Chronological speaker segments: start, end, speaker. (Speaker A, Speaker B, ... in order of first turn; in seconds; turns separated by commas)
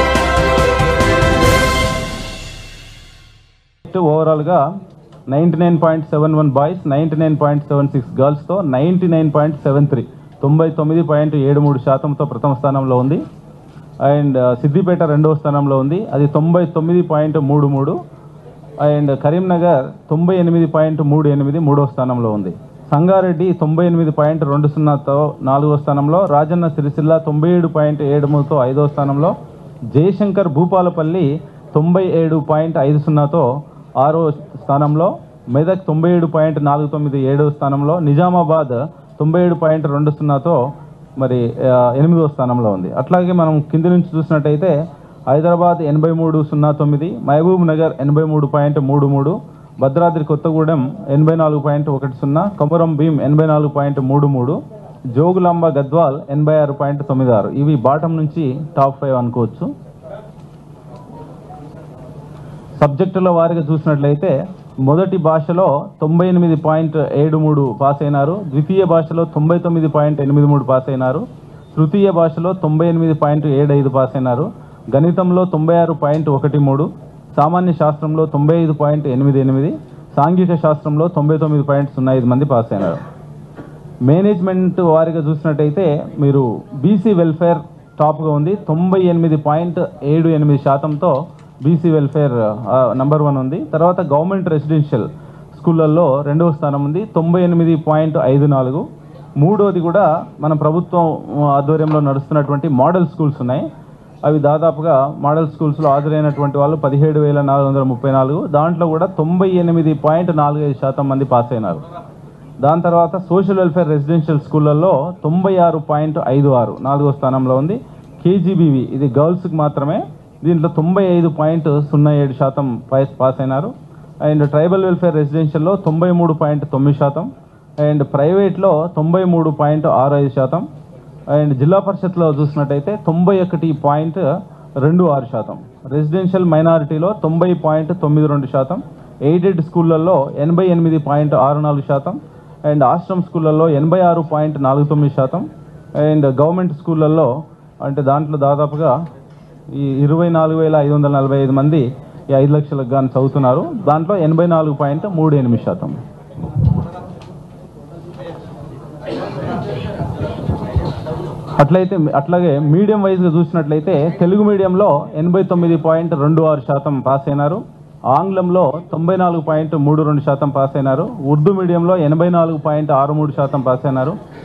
Speaker A: 3.9-4.6, Speaker A: 5.3-13.2, Speaker A: 14.1-18.0, Speaker A: 18.8-29.3, Speaker A: 29.9-33.5, Speaker A: 34.0-40.6, Speaker A: 41.2-44.7, Speaker A: 45.3-54.6, Speaker A: 55.1-59.7, Speaker A: 62.8-64.3, Speaker A: 64.9-83.0, Speaker A: 84.1-98.9, Speaker A: 99.4-103.7, Speaker A: 104.3-111.8, Speaker A: 112.6-123.7, Speaker A: 124.2-127.3, Speaker A: 127.8-130.7, Speaker A: 131.3-134.3, Speaker A: 134.8-145.5, Speaker A: 146.0-147.3, Speaker A: 147.8-148.9, Speaker A: 149.7-156.0, Speaker A: 161.6-174.2